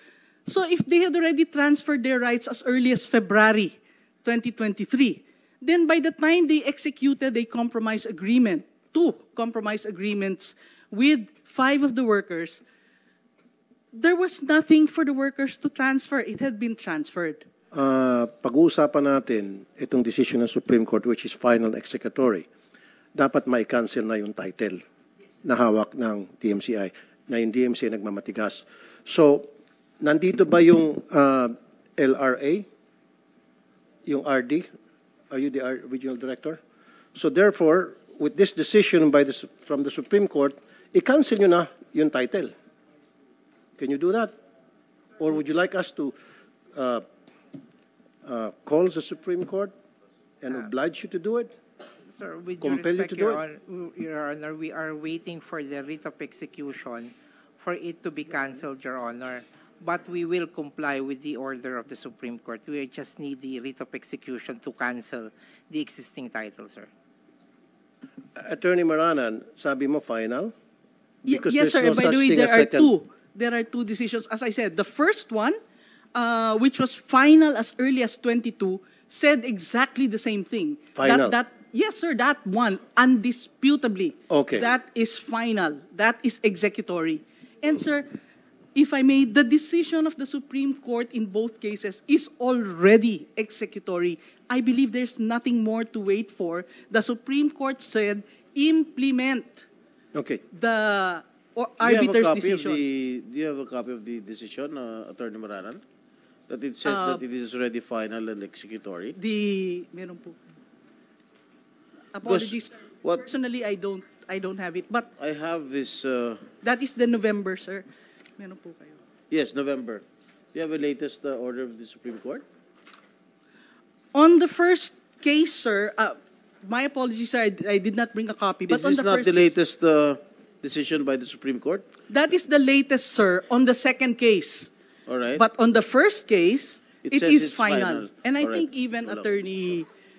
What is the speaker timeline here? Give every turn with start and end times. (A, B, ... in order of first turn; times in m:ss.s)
0:00.5-0:12.6 A
0:13.9-0:17.4 A
0:17.7-0:22.5 B
0:23.2-0:24.8 B
0:25.4-0:29.5 B
0:30.0-0:32.7 B
0:34.1-0:34.7 B
0:35.3-0:36.6 B
0:37.2-0:42.5 B
0:43.8-0:44.3 B
0:45.2-0:46.1 B
0:46.8-0:47.0 B
0:48.2-0:49.7 B
0:50.4-0:51.5 B
0:52.1-1:06.9 C
0:52.6-0:53.4 B
1:08.4-1:10.5 B
1:11.2-1:12.9 B
1:11.3-1:15.6 A
1:16.2-1:28.1 A
1:21.0-1:21.4 B
1:24.3-1:24.6 B
1:28.8-1:39.7 A
1:40.1-1:40.4 B
1:40.5-1:42.8 A
1:41.8-1:45.8 D
1:46.5-1:49.2 D
1:46.8-1:47.2 A
1:49.2-1:50.4 A
1:52.1-1:55.1 A
1:52.2-1:53.3 D
1:55.2-1:56.5 D
1:56.6-1:57.9 A
1:58.4-1:59.0 A
1:59.3-2:02.4 D
2:04.1-2:09.5 A
2:08.7-2:11.9 D
2:12.1-2:14.7 A
2:15.1-2:15.4 D
2:15.4-2:19.9 A
2:17.0-2:19.7 D